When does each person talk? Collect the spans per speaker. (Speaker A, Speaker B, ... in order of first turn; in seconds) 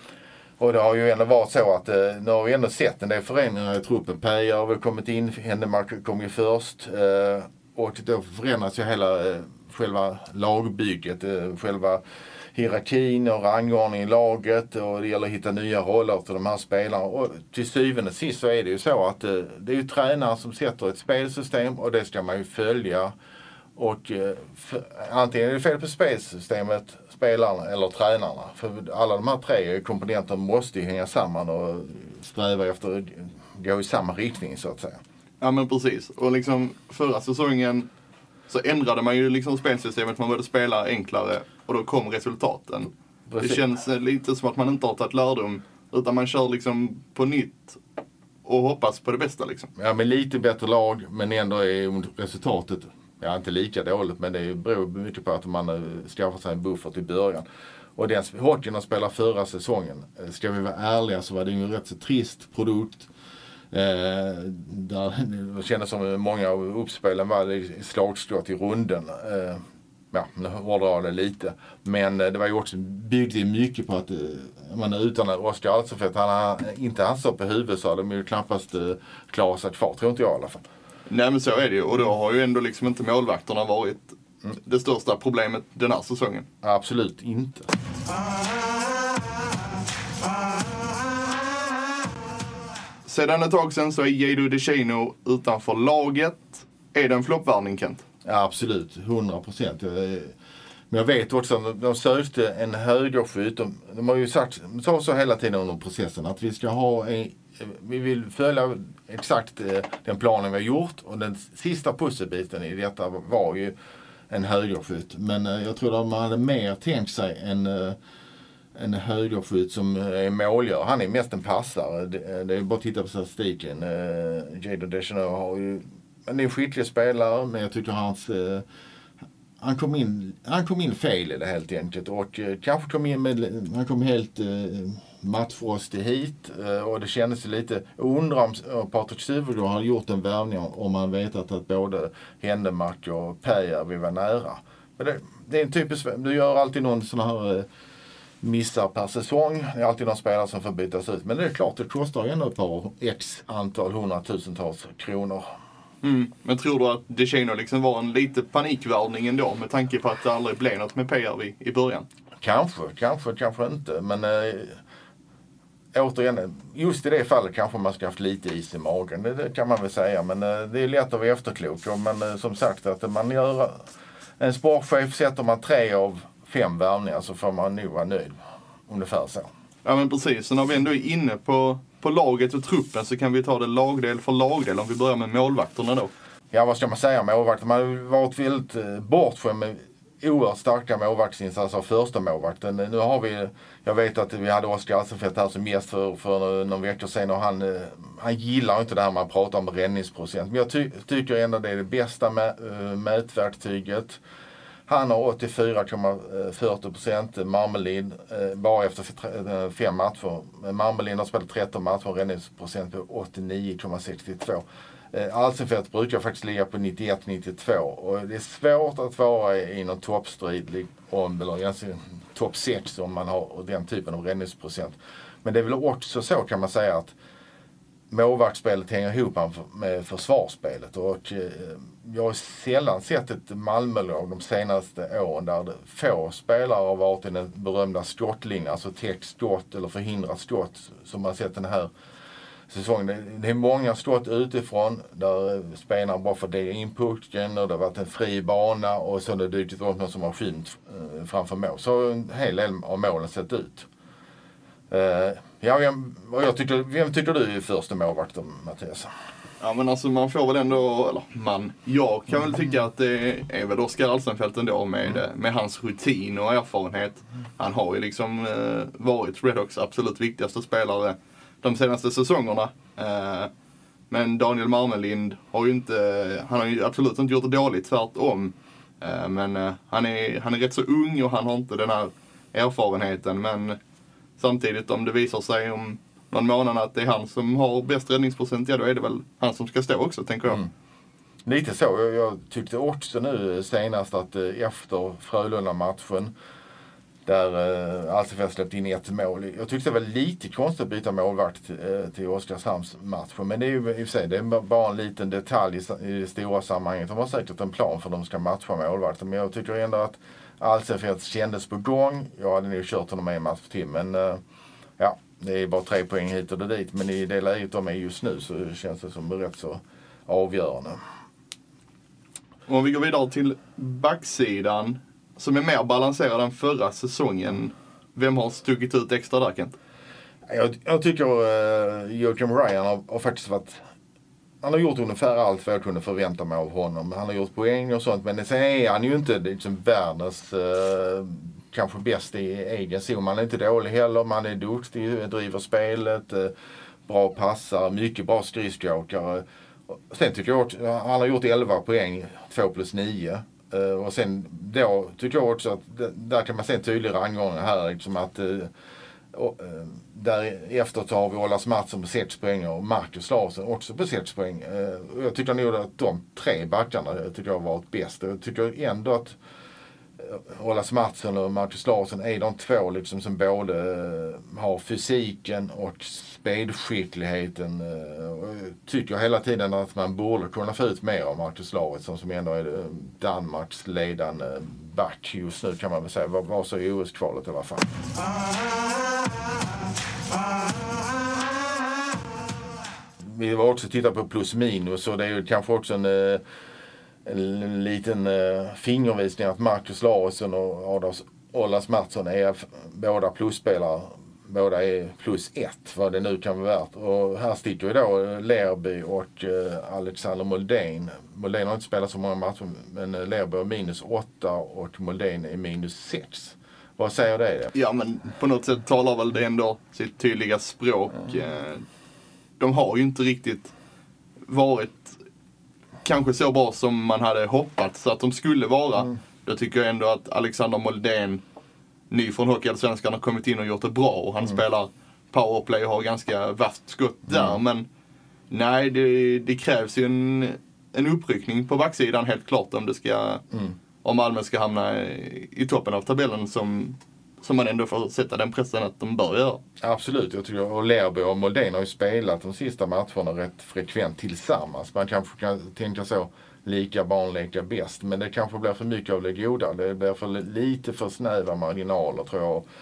Speaker A: 0.6-12.0, 12.5-23.1, 23.8-35.0, 43.3-43.6, 49.8-57.5, 58.0-63.1, 63.7-80.6, 86.6-87.7, 98.2-100.3, 100.9-113.7, 114.3-118.0, 118.7-128.7, 129.6-147.7, 148.4-155.5, 162.4-164.8, 165.9-173.9, 174.4-179.5, 186.5-204.2, 204.9-227.1, 228.1-241.9, 242.7-253.9, 254.9-259.1, 291.4-296.3, 297.2-314.4, 315.0-321.0, 330.5-333.8, 334.6-346.5, 347.1-358.7, 359.3-369.4, 370.2-387.9, 393.2-396.4, 397.2-417.7, 437.3-437.6, 449.8-462.6
Speaker B: 35.4-37.9, 38.5-47.8, 48.4-49.7, 81.1-86.5, 93.0-98.0, 156.0-162.0, 179.8-186.1, 259.6-273.5, 274.1-283.8, 284.4-290.6, 322.7-329.8, 417.7-421.8, 422.6-423.7, 424.5-425.2, 426.0-431.4, 432.1-437.9, 438.5-443.4, 444.0-449.6